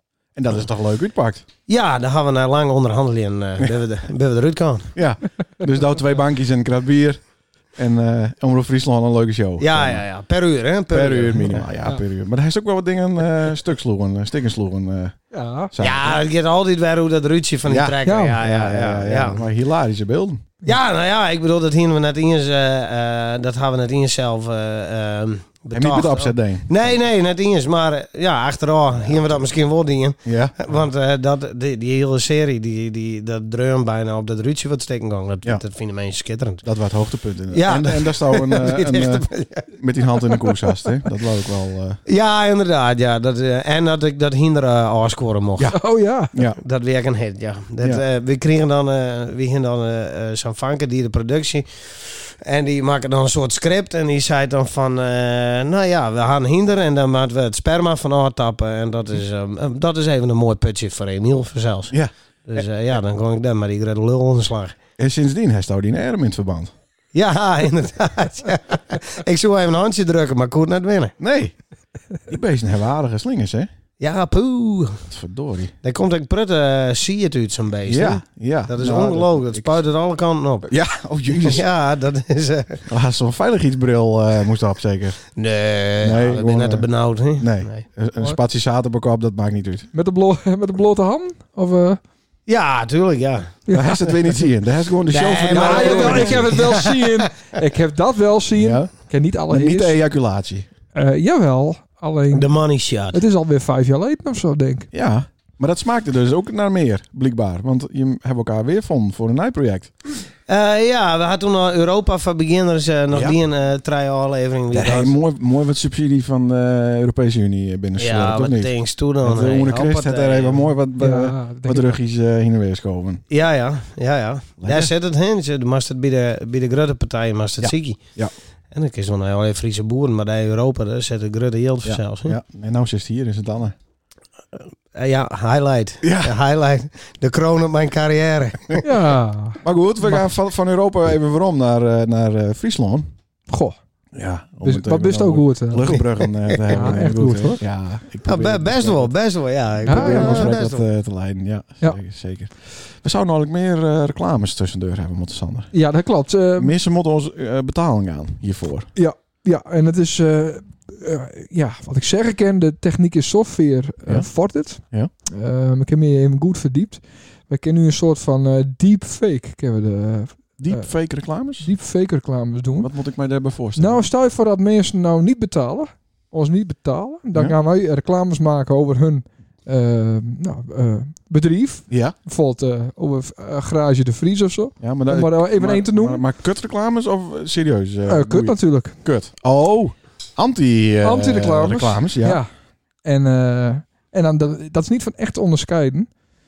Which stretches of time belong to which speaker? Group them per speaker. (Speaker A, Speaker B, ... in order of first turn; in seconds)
Speaker A: 0.3-1.4, 4.9-7.2, 7.8-10.0, 10.9-16.2, 17.6-20.5, 25.7-27.0, 29.0-29.4, 30.2-30.5, 36.6-42.0, 46.3-46.6, 61.9-62.6, 65.0-66.7, 71.2-71.5, 72.3-73.7, 75.1-75.7, 77.8-79.8, 80.7-81.6, 82.9-85.2, 86.0-89.9, 93.7-96.6, 98.5-98.9, 99.5-100.7, 104.9-109.9, 113.1-113.4, 114.7-123.2, 124.6-124.9, 127.6-128.3, 131.8-133.8, 136.0-136.3, 139.6-143.1, 144.1-149.1, 149.8-155.7, 156.6-158.9, 164.1-165.1, 170.6-171.7, 172.8-174.1, 181.9-182.2, 184.8-192.4
Speaker B: 1.7-4.9, 9.6-11.6, 15.8-19.4, 20.6-36.6, 37.5-40.8, 42.1-45.8, 46.6-64.8, 67.1-71.1, 74.0-75.0, 75.8-80.7, 81.3-82.8, 85.3-87.8, 92.5-93.6, 95.1-97.2, 102.3-103.2, 110.5-115.1, 118.0-120.7, 123.3-128.0, 128.7-132.4, 134.9-138.8, 146.4-147.0, 148.2-150.8
Speaker C: 15.3-15.7, 18.0-18.4, 45.7-46.3, 89.9-92.0, 93.7-94.0, 95.5-100.0, 100.9-102.5, 103.1-104.9, 121.0-122.0, 138.8-140.2, 143.5-143.8, 144.6-146.0, 146.7-147.6, 149.8-150.5, 155.7-156.7, 158.9-170.9, 171.6-172.9, 173.8-186.2, 188.1-189.0, 191.0-192.5, 193.0-196.1